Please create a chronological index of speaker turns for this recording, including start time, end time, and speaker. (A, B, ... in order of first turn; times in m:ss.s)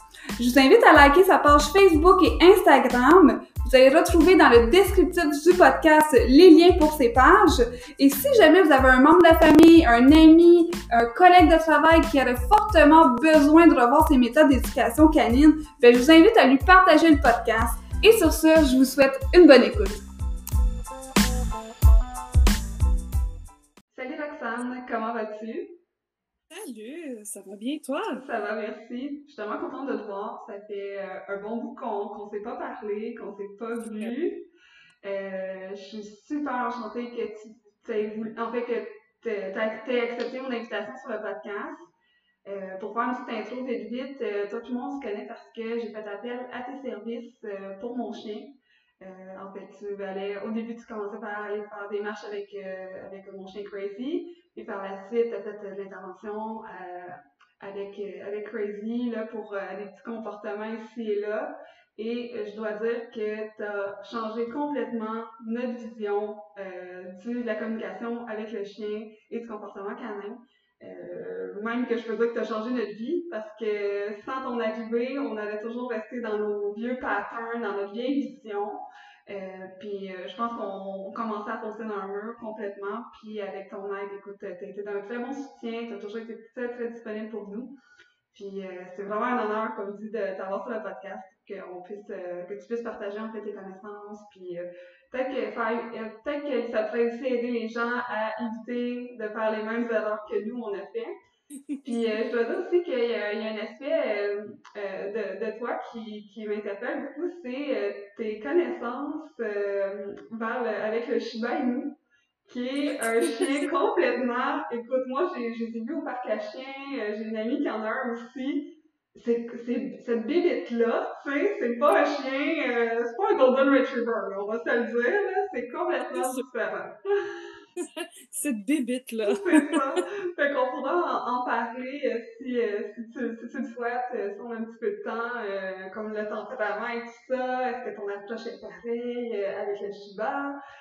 0:00.4-0:20.0 A
0:23.9-0:25.8 A
0:26.5-0:28.2 B
0:28.1-0:34.4 A
0:35.0-0:41.9 A
0:42.4-1:27.7 A
1:28.3-1:41.1 A
1:41.7-1:42.2 B
1:41.8-2:07.4 A
1:52.9-1:53.7 B
2:06.1-2:06.4 B
2:07.8-2:09.8 B
2:09.2-2:20.6 A